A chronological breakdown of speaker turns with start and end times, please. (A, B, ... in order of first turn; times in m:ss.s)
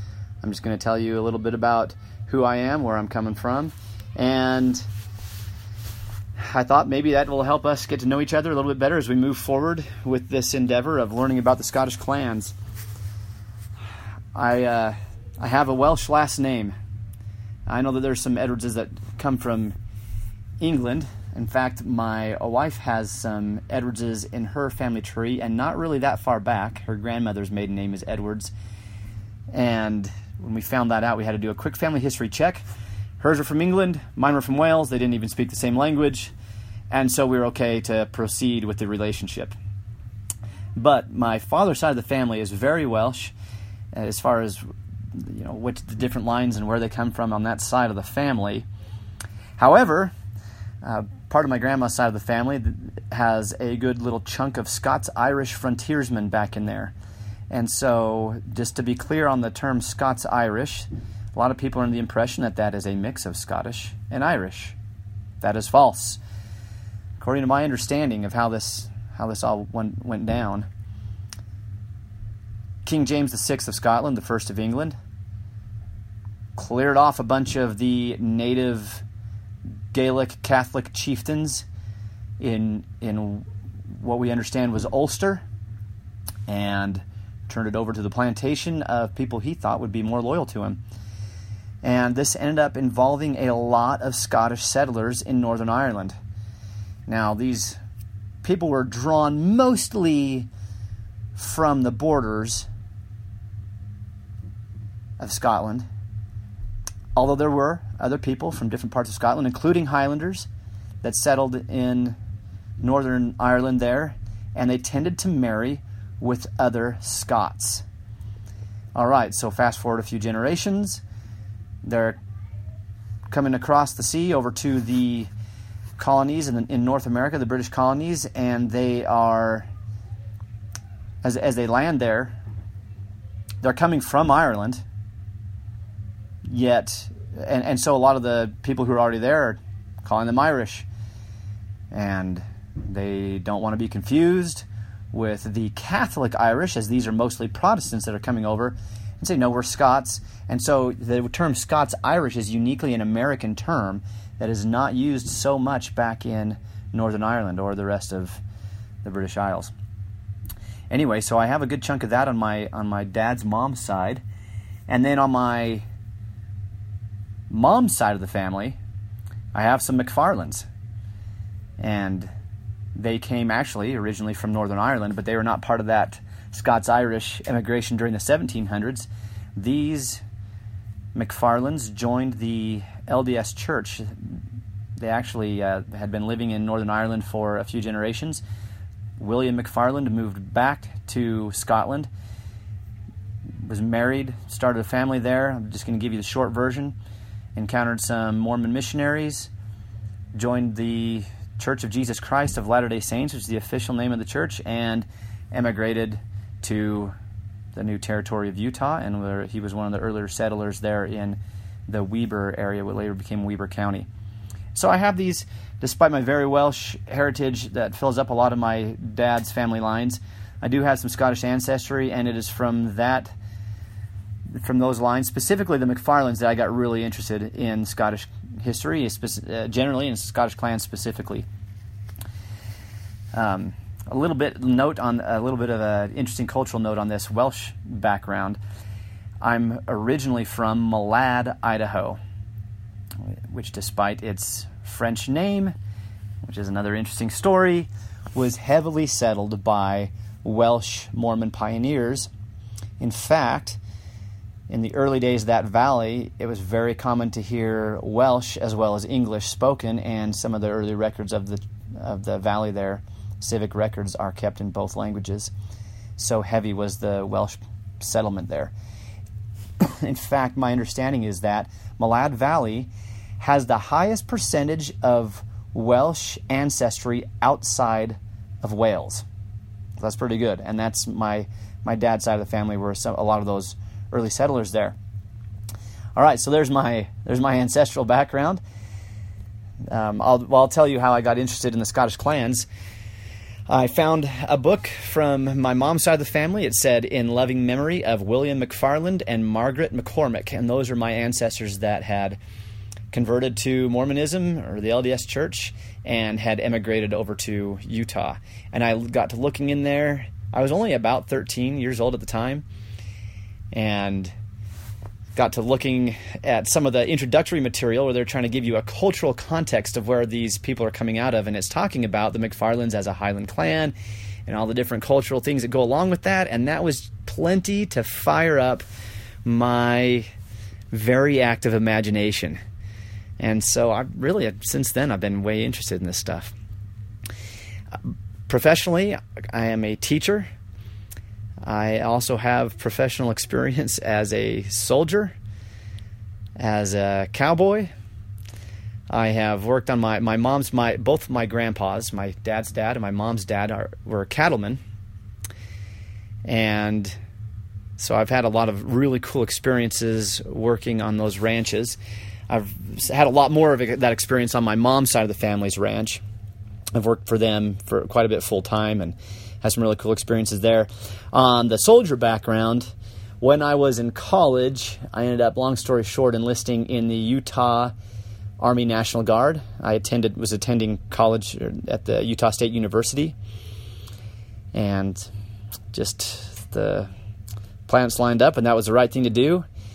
0:00.4-0:04.8 A
0:06.4-0:12.5 A
0:14.3-0:16.7 A
0:17.7-0:19.7 A
0:20.6-0:28.5 A
0:29.5-0:32.6 A
0:33.2-0:36.3 A
0:36.9-0:39.5 A
0:40.8-0:43.3 A
0:43.9-0:44.6 A
0:45.1-0:48.6 A
0:49.6-0:50.1 A
0:50.8-0:56.9 A
0:57.5-1:04.8 A
1:05.4-1:06.2 A
1:07.2-1:10.7 A
1:12.8-1:15.0 A
1:16.6-1:19.0 A
1:19.9-1:21.6 A
1:22.4-1:25.4 A
1:26.5-1:30.8 A
1:31.8-1:36.1 A
1:37.1-1:37.8 A
1:38.4-1:40.5 A
1:41.4-1:42.7 A
1:45.2-1:45.8 A
1:47.2-1:50.5 A
1:51.0-1:52.2 A
1:52.8-1:57.8 A
1:58.9-2:01.0 A
2:01.8-2:02.2 A
2:03.3-2:05.3 A
2:06.0-2:09.7 A
2:11.2-2:12.4 A
2:13.6-2:14.8 A
2:16.5-2:20.8 A
2:21.9-2:38.4 A
2:39.0-2:39.7 A
2:40.9-2:44.2 A
2:44.9-2:45.8 A
2:47.5-2:48.8 A
2:49.5-2:50.6 A
2:51.8-2:52.3 A
2:52.9-3:00.2 A
3:01.1-3:04.3 A
3:05.0-3:08.4 A
3:09.2-3:12.1 A
3:13.6-3:16.9 A
3:17.6-3:19.5 A
3:20.3-3:27.1 A
3:27.7-3:34.1 A
3:34.7-3:43.3 A
3:44.5-3:51.4 A
3:53.3-3:58.6 A
3:59.4-4:02.2 A
4:03.2-4:05.7 A
4:06.4-4:12.3 A
4:13.0-4:13.8 A
4:14.7-4:25.5 A
4:26.2-4:28.7 A
4:29.8-4:39.2 A
4:40.0-4:45.0 A
4:46.1-4:48.6 A
4:49.9-4:52.7 A
4:53.7-5:02.4 A
5:03.1-5:12.6 A
5:13.7-5:14.3 A
5:15.3-5:23.9 A
5:24.5-5:28.8 A
5:29.4-5:30.3 A
5:30.9-5:32.6 A
5:33.4-5:36.5 A
5:38.5-5:40.5 A
5:41.6-5:45.3 A
5:46.6-5:47.9 A
5:49.1-5:54.8 A
5:56.4-5:57.2 A
5:58.0-6:02.0 A
6:02.5-6:06.2 A
6:06.9-6:17.9 A
6:18.6-6:23.3 A
6:24.7-6:25.3 A
6:25.9-6:27.1 A
6:27.9-6:29.6 A